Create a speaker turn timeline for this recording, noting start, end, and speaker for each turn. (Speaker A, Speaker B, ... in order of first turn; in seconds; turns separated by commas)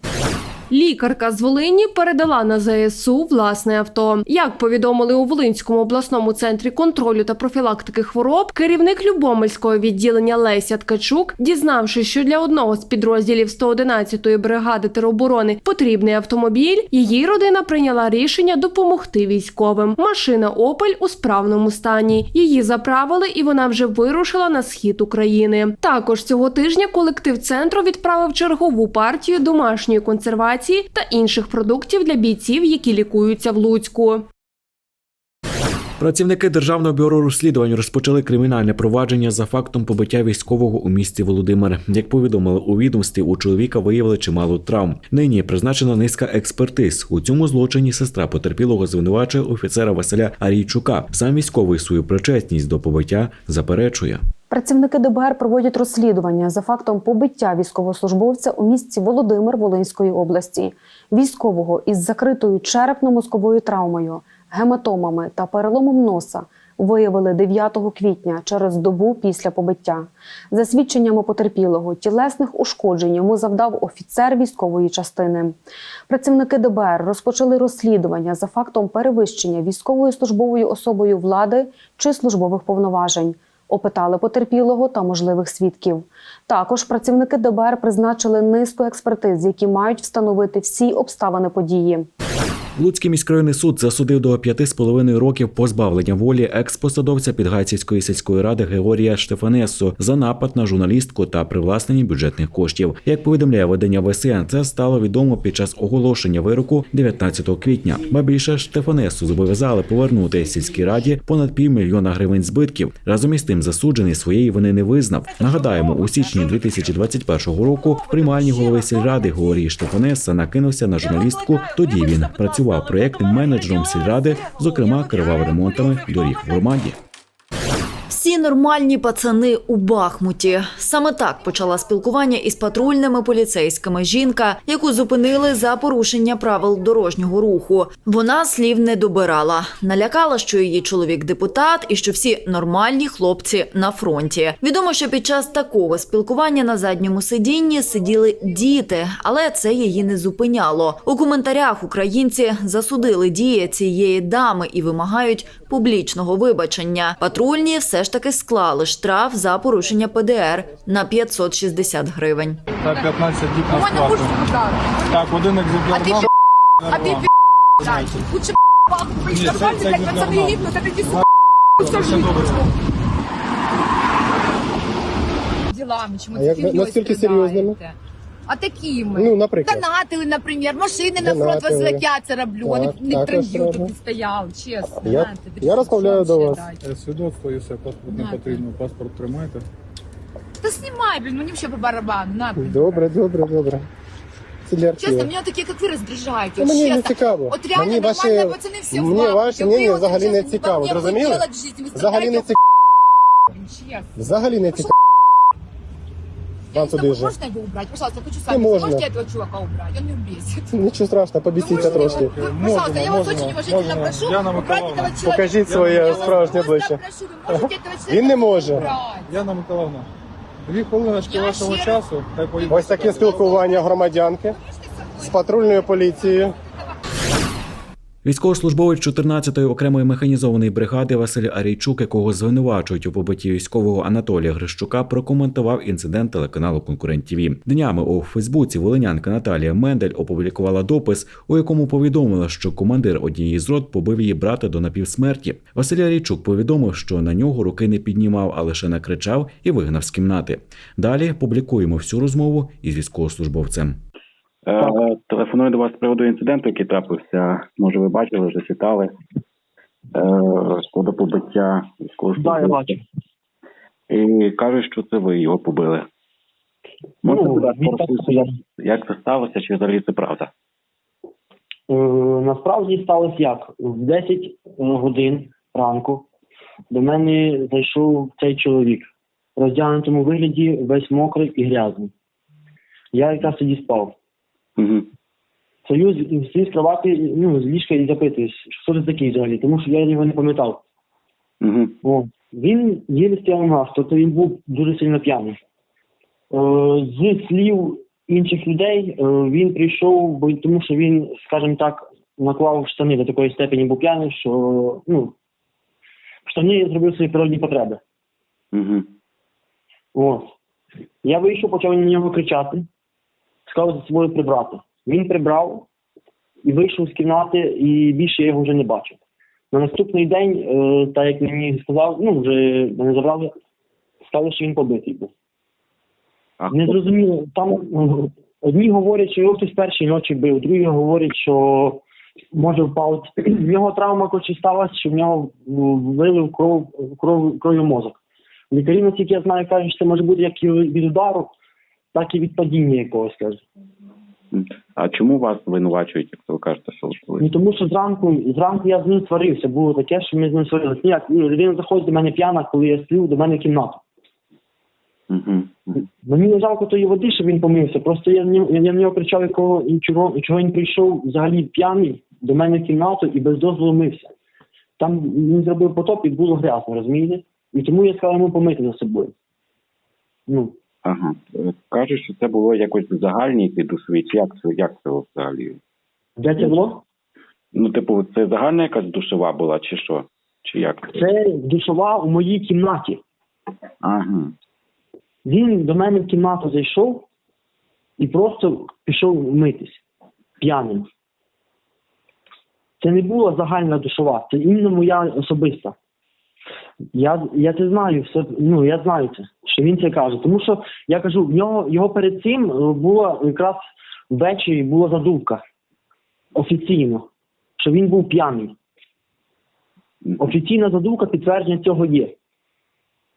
Speaker A: 0.7-34.3, Speaker B: 36.0-54.2, Speaker C: 54.5-75.6, Speaker C: 76.1-92.1, Speaker B: 92.8-127.0, Speaker D: 128.1-162.6, Speaker E: 162.8-164.3, Speaker F: 163.7-165.2, Speaker E: 165.1-167.3, Speaker F: 165.9-166.3, Speaker F: 166.9-167.3, Speaker E: 167.8-168.3, Speaker F: 167.8-171.2, Speaker E: 169.3-171.3, Speaker F: 171.8-172.7, Speaker E: 171.8-172.7, Speaker F: 175.7-186.8, Speaker G: 176.3-177.8, Speaker G: 179.2-179.8, Speaker G: 181.2-182.1, Speaker G: 182.7-183.9, Speaker G: 185.1-186.7, Speaker E: 186.8-189.7, Speaker F: 188.1-188.6, Speaker F: 190.6-193.0, Speaker G: 192.6-193.9, Speaker G: 194.7-195.3, Speaker F: 195.0-202.6, Speaker G: 196.6-202.6, Speaker F: 203.5-204.9, Speaker G: 204.2-204.9, Speaker F: 206.7-210.8, Speaker G: 206.8-207.3, Speaker G: 208.5-209.1, Speaker G: 210.8-212.3, Speaker F: 211.6-219.3, Speaker E: 211.6-216.7, Speaker G: 215.2-217.0, Speaker G: 218.1-218.9, Speaker E: 219.3-220.1, Speaker E: 220.7-223.6, Speaker F: 221.2-222.1, Speaker F: 222.6-223.9, Speaker G: 222.7-224.6, Speaker F: 225.1-226.2, Speaker G: 225.3-226.5, Speaker B: 228.2-254.0, Speaker H: 254.7-259.1, Speaker H: 260.1-262.9, Speaker I: 262.4-263.0, Speaker H: 264.1-266.1, Speaker H: 267.2-270.5, Speaker I: 267.2-268.6, Speaker I: 271.9-276.3, Speaker I: 276.9-282.1, Speaker I: 283.1-284.1, Speaker H: 284.8-285.1, Speaker I: 285.9-290.8, Speaker H: 291.6-292.0, Speaker I: 292.0-295.6, Speaker I: 296.5-305.4, Speaker I: 306.5-308.0, Speaker H: 308.7-309.1, Speaker I: 310.1-310.5, Speaker I: 311.2-312.9, Speaker I: 313.7-315.9, Speaker I: 316.6-319.2, Speaker I: 319.7-323.5, Speaker I: 324.3-325.3, Speaker H: 326.6-327.0, Speaker I: 326.7-332.0, Speaker I: 332.5-338.2, Speaker I: 338.7-341.5, Speaker I: 342.1-343.6, Speaker H: 344.5-347.5, Speaker I: 347.4-354.0, Speaker H: 355.3-356.1, Speaker I: 356.2-364.3, Speaker I: 365.0-369.3, Speaker I: 370.5-370.8, Speaker H: 371.1-375.8, Speaker I: 376.4-377.0, Speaker H: 377.7-381.1, Speaker I: 381.1-383.2, Speaker H: 384.0-384.5, Speaker I: 385.4-387.3, Speaker I: 388.2-390.0, Speaker I: 390.6-391.1, Speaker I: 393.0-395.9, Speaker I: 397.1-405.6, Speaker I: 406.6-407.3, Speaker I: 407.8-408.8, Speaker H: 410.2-410.5, Speaker I: 410.4-412.4